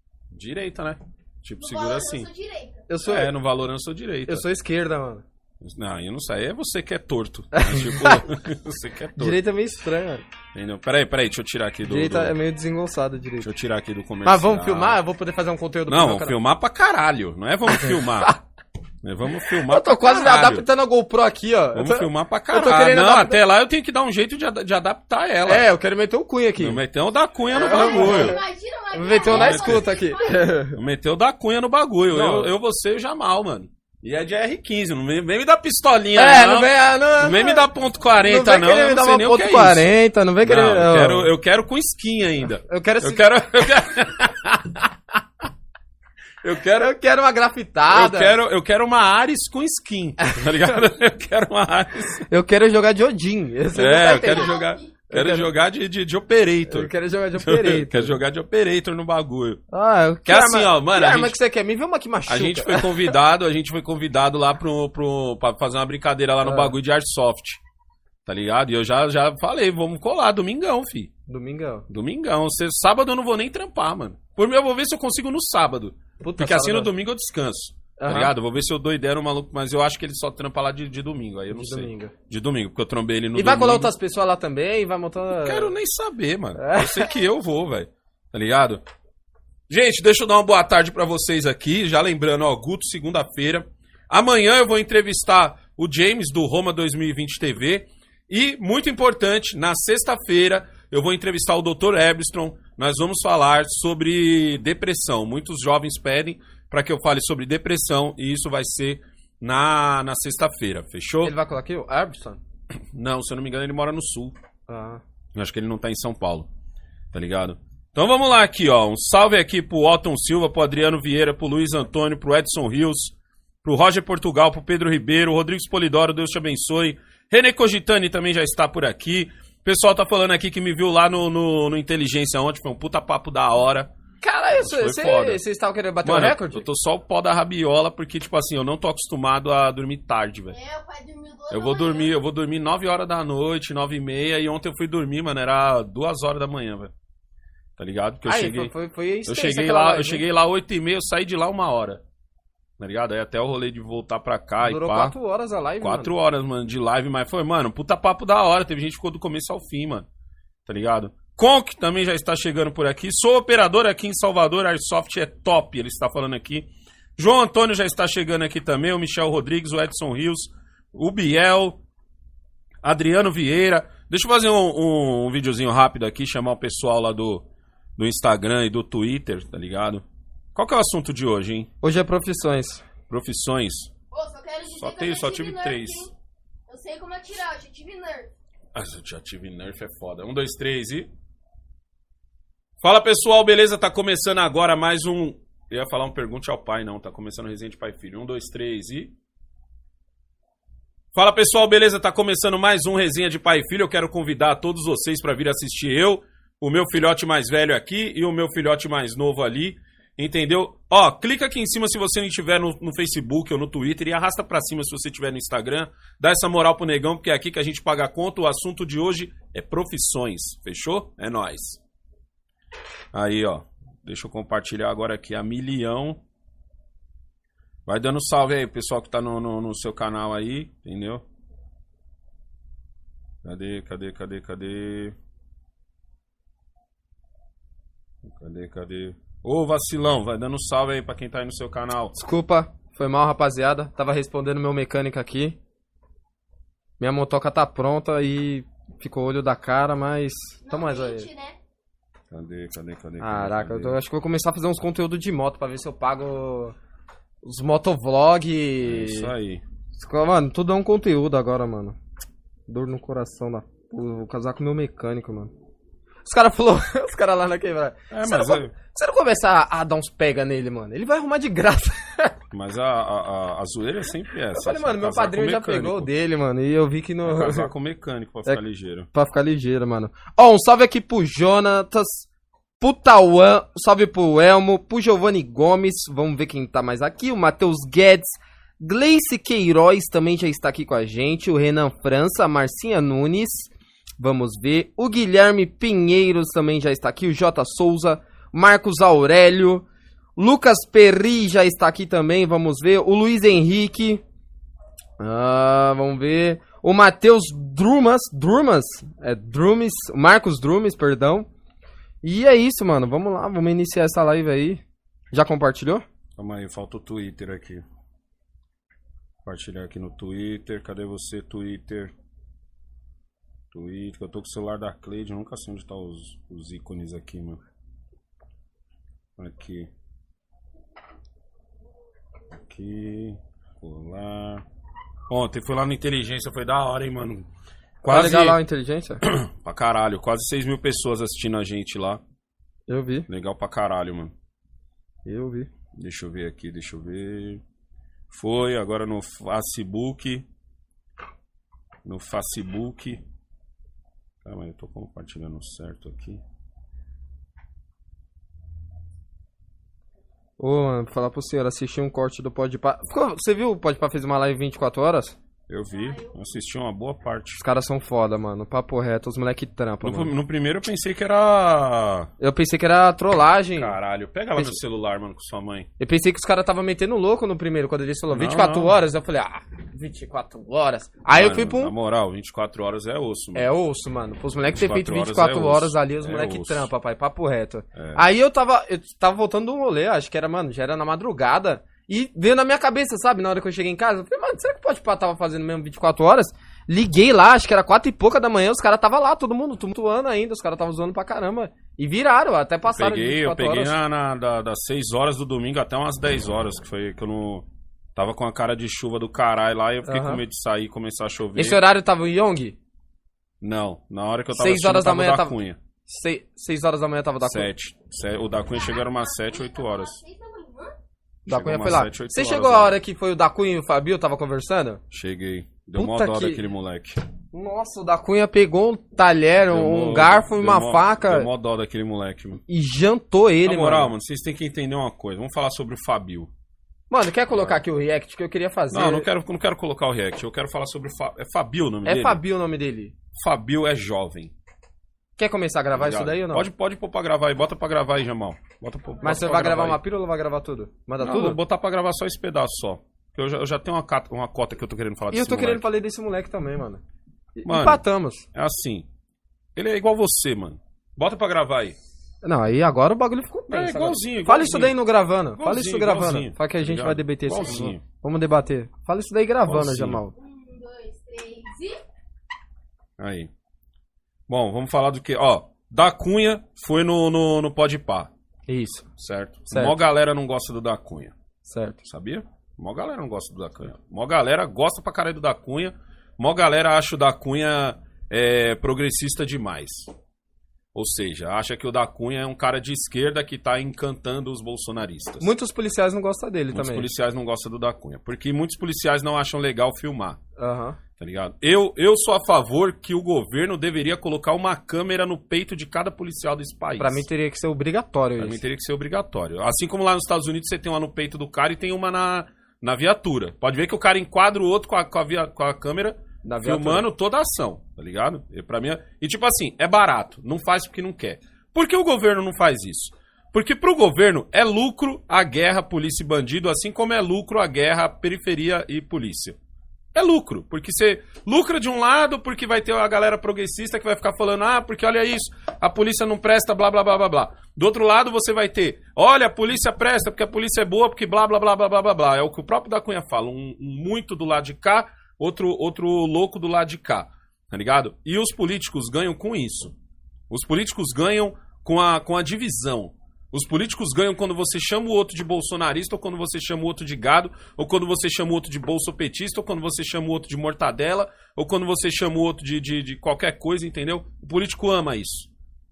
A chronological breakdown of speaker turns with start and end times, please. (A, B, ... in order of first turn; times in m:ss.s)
0:00.3-0:02.3 A
0:01.6-0:02.8 B
0:02.9-0:03.3 C
0:03.0-0:04.4 A
0:04.3-0:05.2 C
0:05.6-0:09.4 A
0:07.5-0:08.2 C
0:09.2-0:10.2 C
0:10.5-0:12.3 A
0:11.9-0:13.5 C
0:13.4-0:15.0 A
0:14.2-0:16.4 C
0:15.9-0:18.4 A
0:17.7-0:18.3 C
0:19.0-0:20.6 A
0:19.6-0:23.4 C
0:21.7-0:25.7 A
0:25.4-0:26.8 C
0:26.6-0:28.4 A
0:27.5-0:30.5 B
0:27.5-0:28.4 C
0:28.9-0:30.8 C
0:29.3-0:29.8 A
0:30.7-0:39.9 A
0:32.1-0:32.5 C
0:36.1-0:37.6 C
0:38.2-0:41.3 C
0:40.4-0:44.9 A
0:42.7-0:43.5 C
0:46.4-0:46.9 A
0:46.7-0:48.4 C
0:47.9-0:52.2 A
0:50.2-0:50.7 C
0:52.3-0:54.6 C
0:53.7-0:59.6 A
0:54.2-0:54.9 B
0:55.1-0:55.5 C
0:56.7-0:58.2 C
0:59.7-1:03.1 C
1:00.2-1:01.4 A
1:02.3-1:07.6 A
1:06.4-1:06.7 C
1:08.2-1:11.1 A
1:11.3-1:11.9 C
1:11.9-1:23.9 A
1:16.2-1:16.9 C
1:18.0-1:18.3 C
1:21.5-1:22.1 C
1:23.3-1:25.7 C
1:25.4-1:28.8 A
1:26.6-1:27.1 C
1:29.7-1:51.3 A
1:51.2-1:52.4 C
1:52.9-1:54.4 A
1:54.7-1:55.0 C
1:55.3-1:56.5 A
1:57.1-2:13.9 A
2:14.2-2:16.6 C
2:14.5-2:15.4 A
2:16.0-2:20.6 A
2:20.5-2:22.1 B
2:21.5-2:26.9 A
2:27.8-2:28.7 A
2:28.2-2:30.2 C
2:29.2-2:32.0 A
2:32.8-2:35.1 A
2:34.6-2:36.1 C
2:35.8-2:40.1 A
2:40.6-2:51.8 A
2:52.8-2:57.4 A
2:58.0-3:01.7 A
3:01.8-3:02.8 C
3:03.1-3:03.9 A
3:04.1-3:06.1 B
3:04.7-3:06.1 A
3:06.7-3:08.3 B
3:08.7-3:11.1 A
3:12.8-3:19.1 A
3:21.1-3:41.8 A
3:43.1-3:46.2 A
3:47.8-3:51.2 A
3:53.4-3:55.2 A
3:58.2-4:02.1 A
4:02.1-4:05.6 C
4:07.0-4:11.3 C
4:10.6-4:11.6 B
4:12.3-4:14.0 A
4:13.2-4:16.8 C
4:17.4-4:19.3 C
4:18.8-4:19.6 A
4:19.9-4:22.0 C
4:22.7-4:25.5 C
4:26.2-4:32.4 C
4:28.1-4:28.7 A
4:32.5-4:36.1 A
4:34.6-4:37.7 C
4:37.2-4:39.1 A
4:39.1-4:42.3 C
4:42.8-4:59.8 C
5:00.4-5:04.2 C
5:05.2-5:11.5 C
5:12.2-5:16.0 C
5:16.4-5:17.8 A
5:19.4-5:22.1 A
5:23.7-5:27.6 A
5:29.4-5:29.9 A
5:32.5-5:34.6 A
5:35.3-5:37.5 A
5:38.0-5:38.6 A
5:38.0-5:39.2 C
5:39.2-5:42.2 A
5:42.9-5:43.2 C
5:43.3-5:44.3 A
5:45.2-5:45.7 C
5:46.0-5:47.6 A
5:48.3-5:50.4 A
5:52.0-5:53.2 A
5:54.4-5:56.4 A
6:00.6-6:05.4 C
6:05.7-6:07.6 A
6:05.9-6:06.3 B
6:07.6-6:10.3 C
6:10.0-6:12.3 A
6:12.4-6:13.9 C
6:13.7-6:15.9 A
6:16.0-6:21.9 C
6:18.3-6:18.9 A
6:21.3-6:23.7 A
6:23.5-6:44.0 C
6:24.7-6:26.9 A
6:28.0-6:28.2 A
6:42.9-6:51.8 A
6:50.0-6:50.4 C
6:51.6-6:52.8 C
6:53.6-6:55.8 A
6:54.5-6:57.7 C
6:57.4-7:00.2 A
6:58.7-7:01.0 B
7:01.4-7:03.0 A
7:01.5-7:05.0 C
7:05.1-7:07.2 A
7:06.0-7:06.6 C
7:07.5-7:11.5 C
7:09.7-7:12.6 A
7:12.7-7:14.1 C
7:13.6-7:16.5 A
7:17.1-7:19.3 C
7:17.5-7:17.8 A
7:18.9-7:22.4 A
7:22.0-7:23.1 C
7:23.3-7:24.5 A
7:25.4-7:26.7 C
7:25.9-7:30.0 A
7:29.2-7:31.6 C
7:31.2-7:35.8 A
7:35.3-7:37.0 C
7:37.6-7:38.4 C
7:37.6-7:38.0 A
7:38.5-7:39.1 A
7:39.8-7:42.0 A
7:42.4-7:50.3 C
7:43.7-7:45.0 A
7:45.6-7:48.0 A
7:49.6-7:50.2 A
7:50.4-7:52.0 B
7:53.2-7:53.5 A
7:54.5-7:58.3 A
7:58.7-7:59.1 C
7:59.2-8:01.3 A
7:59.7-8:00.0 C
8:01.6-8:02.0 C
8:02.0-8:10.1 A
8:10.9-8:15.5 A
8:15.4-8:17.1 C
8:16.7-8:20.4 A
8:20.6-8:21.0 C
8:21.2-8:27.2 A
8:27.0-8:28.6 C
8:28.4-8:49.6 A
8:36.4-8:37.0 C
8:50.1-9:09.9 A
9:10.5-9:25.5 A